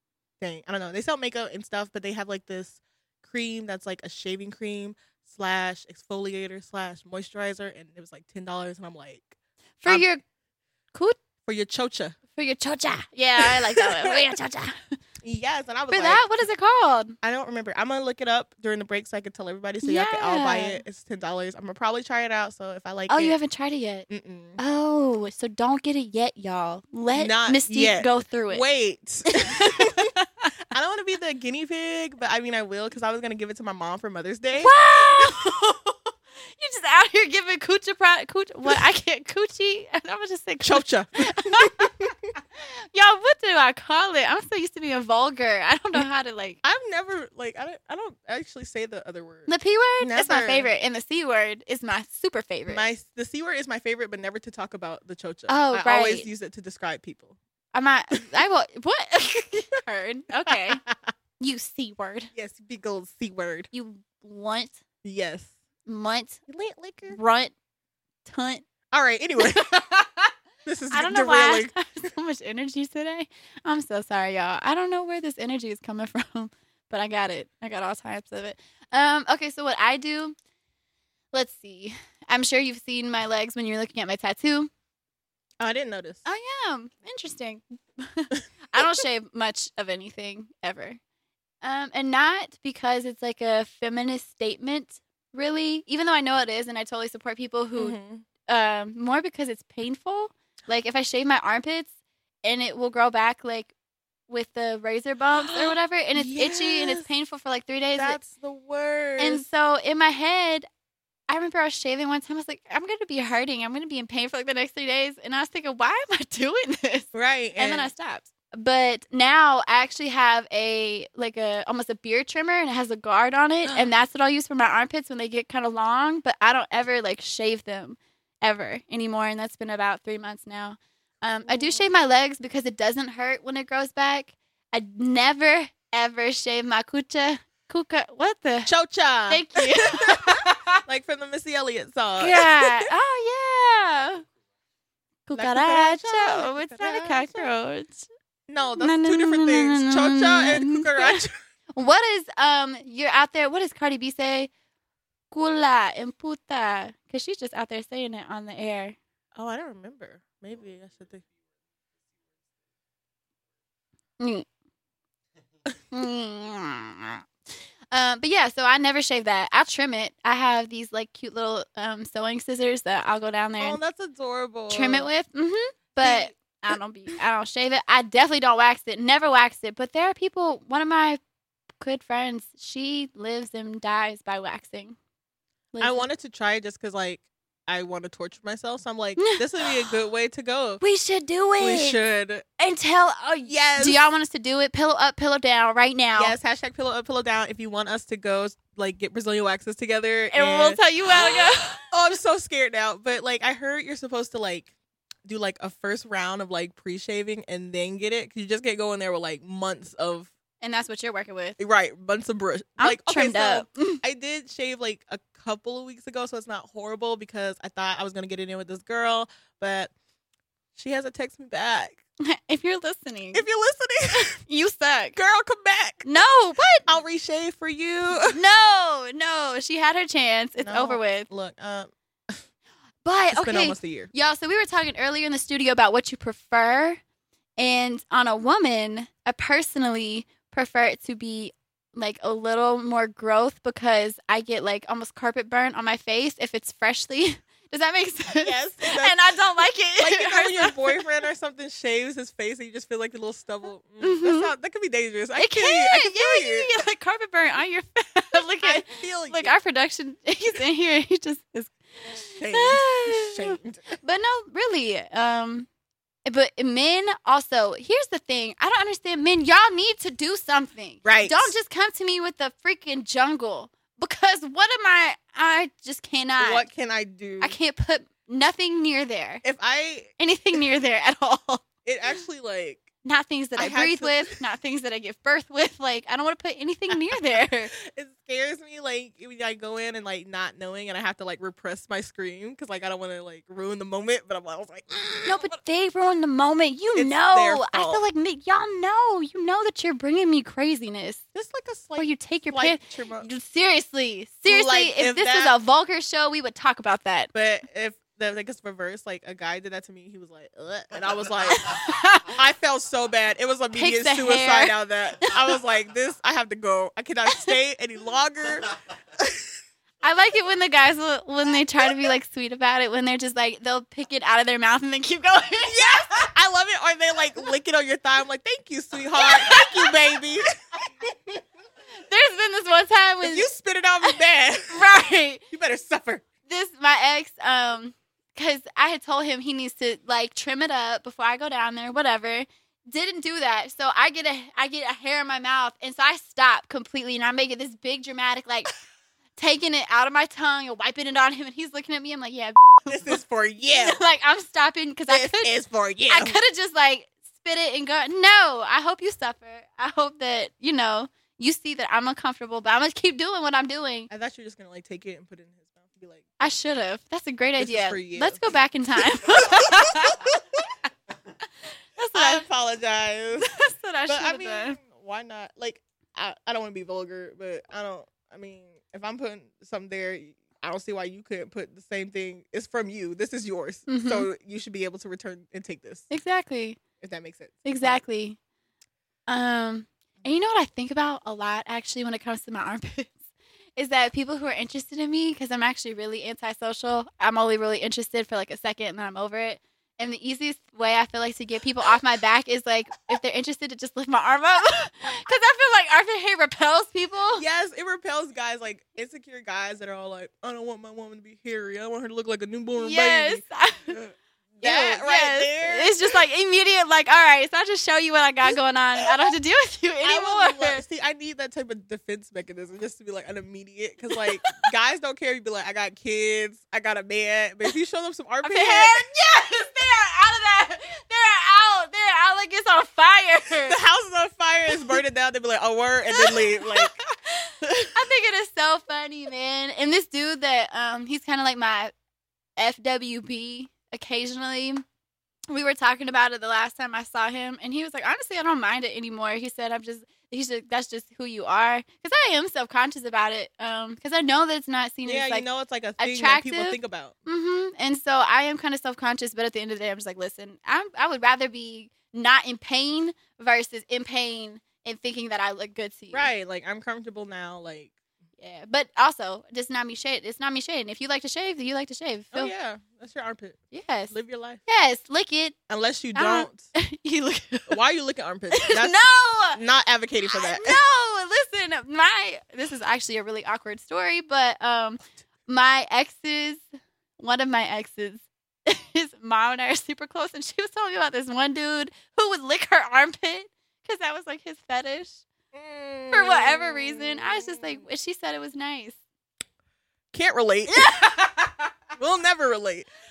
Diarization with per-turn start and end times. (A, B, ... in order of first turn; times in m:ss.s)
0:00.4-0:10.1 A
0:09.8-0:10.2 B
0:11.4-0:12.2 A
0:12.4-0:15.0 B
0:13.4-0:14.2 A
0:15.2-0:16.3 A
0:15.9-0:17.2 B
0:17.2-0:23.4 A
0:19.8-0:20.8 B
0:23.1-0:24.1 B
0:24.1-0:24.6 A
0:24.6-0:28.7 B
0:27.1-0:30.1 A
0:29.3-0:30.5 B
0:30.7-0:35.5 A
0:34.6-0:42.1 B
0:40.6-0:42.3 A
0:42.6-0:46.6 B
0:46.6-0:50.7 A
0:49.5-0:52.8 B
0:52.7-0:57.4 A
0:55.5-0:56.3 B
0:57.7-1:00.8 B
1:00.5-1:01.0 A
1:01.4-1:02.3 B
1:02.3-1:03.7 A
1:03.7-1:04.8 B
1:05.0-1:05.5 A
1:05.9-1:06.4 B
1:06.5-1:07.2 A
1:07.1-1:07.5 B
1:08.3-1:08.7 B
1:08.9-1:09.7 A
1:09.4-1:10.3 B
1:10.7-1:11.7 A
1:10.9-1:20.4 B
1:21.3-1:24.7 B
1:25.6-1:26.2 A
1:26.3-1:31.0 B
1:31.6-1:41.9 B
1:37.8-1:38.2 A
1:42.4-1:43.7 B
1:44.3-1:48.2 B
1:45.4-1:47.1 A
1:48.0-1:49.4 A
1:49.2-1:50.7 B
1:51.3-2:18.7 B
1:57.1-1:57.9 A
2:11.4-2:11.9 A
2:18.7-2:22.8 A
2:19.3-2:20.8 B
2:22.2-2:24.2 B
2:25.3-2:28.1 B
2:25.3-2:27.5 A
2:28.5-2:31.4 A
2:28.8-2:31.2 B
2:31.8-2:34.5 B
2:35.3-2:39.0 B
2:39.4-2:41.2 A
2:44.2-2:44.4 B
2:45.9-2:47.2 B
2:47.9-2:53.8 B
2:53.6-2:55.1 A
2:54.7-3:01.2 B
2:56.0-2:56.8 A
3:01.8-3:05.0 B
3:05.7-3:06.1 B
3:05.8-3:10.8 A
3:09.2-3:09.9 B
3:10.8-3:12.0 B
3:11.6-3:12.4 A
3:12.6-3:16.4 B
3:13.4-3:14.0 A
3:16.2-3:24.7 A
3:20.3-3:21.8 B
3:25.3-3:30.3 A
3:30.6-3:31.6 B
3:31.6-3:39.9 A
3:32.8-3:34.0 B
3:40.8-3:42.0 A
3:42.2-3:43.5 B
3:43.3-3:44.4 A
3:44.1-3:45.2 B
3:45.2-3:46.0 A
3:46.0-3:46.9 B
3:46.9-3:48.4 A
3:48.2-3:51.3 B
3:50.6-3:52.4 A
3:53.0-3:57.0 B
3:53.3-3:54.1 A
3:57.6-4:11.0 B
4:08.4-4:09.4 A
4:10.0-4:16.8 A
4:14.0-4:14.5 B
4:15.4-4:25.7 B
4:18.6-4:19.6 A
4:22.4-4:24.0 A
4:26.3-4:36.7 B
4:31.0-4:31.5 A
4:36.4-4:37.6 A
4:37.4-4:39.4 B
4:39.4-4:40.1 A
4:40.2-4:41.6 B
4:41.8-4:42.9 A
4:43.0-4:47.7 B
4:43.6-4:44.4 A
4:47.8-4:55.5 A
4:55.2-5:01.2 B
4:57.0-4:58.0 A
5:01.3-5:03.3 A
5:02.0-5:07.3 B
5:04.5-5:05.6 A
5:07.3-5:11.7 A
5:11.5-5:12.4 B
5:12.3-5:19.3 A
5:13.7-5:15.3 B
5:17.3-5:17.6 B
5:20.0-5:25.8 B
5:25.7-5:31.4 A
5:29.2-5:30.0 B
5:32.0-5:33.5 B
5:33.2-5:34.9 A
5:34.7-5:35.4 B
5:35.5-5:36.2 A
5:36.5-5:48.7 B
5:49.4-5:53.2 B
5:52.9-5:54.0 A
5:53.7-5:55.5 B
5:55.1-5:56.4 A
5:56.1-6:04.1 B
6:04.1-6:06.6 A
6:06.4-6:10.3 B
6:07.6-6:08.4 A
6:09.3-6:10.4 A
6:12.0-6:12.4 B
6:12.1-6:13.5 A
6:13.4-6:14.8 B
6:14.1-6:26.1 A
6:23.9-6:24.3 B
6:26.1-6:26.8 B
6:27.0-6:28.0 A
6:27.6-6:28.4 B
6:29.3-6:33.2 B
6:33.8-6:47.4 B
6:47.4-6:56.2 A
6:52.8-6:54.0 B
6:54.6-7:00.8 B
6:58.4-6:59.3 A
7:00.0-7:09.1 A
7:04.2-7:04.6 B
7:08.4-7:13.8 B
7:13.6-7:17.0 A
7:16.2-7:21.9 B
7:17.6-7:18.0 A
7:22.6-7:24.8 B
7:25.5-7:35.5 B
7:35.0-7:37.2 A
7:36.0-7:46.3 B
7:46.1-7:47.9 A
7:48.4-7:52.5 B
7:52.3-7:54.6 A
7:53.7-7:54.1 B
7:54.7-7:55.6 B
7:55.7-7:56.7 A
7:56.2-7:57.8 B
7:57.7-7:59.0 A
7:58.5-7:59.6 B
7:59.5-8:00.8 A
8:00.2-8:06.6 B
8:07.2-8:15.2 B
8:15.5-8:17.8 A
8:16.1-8:19.0 B
8:20.1-8:20.9 A
8:20.7-8:21.5 B
8:22.0-8:22.9 A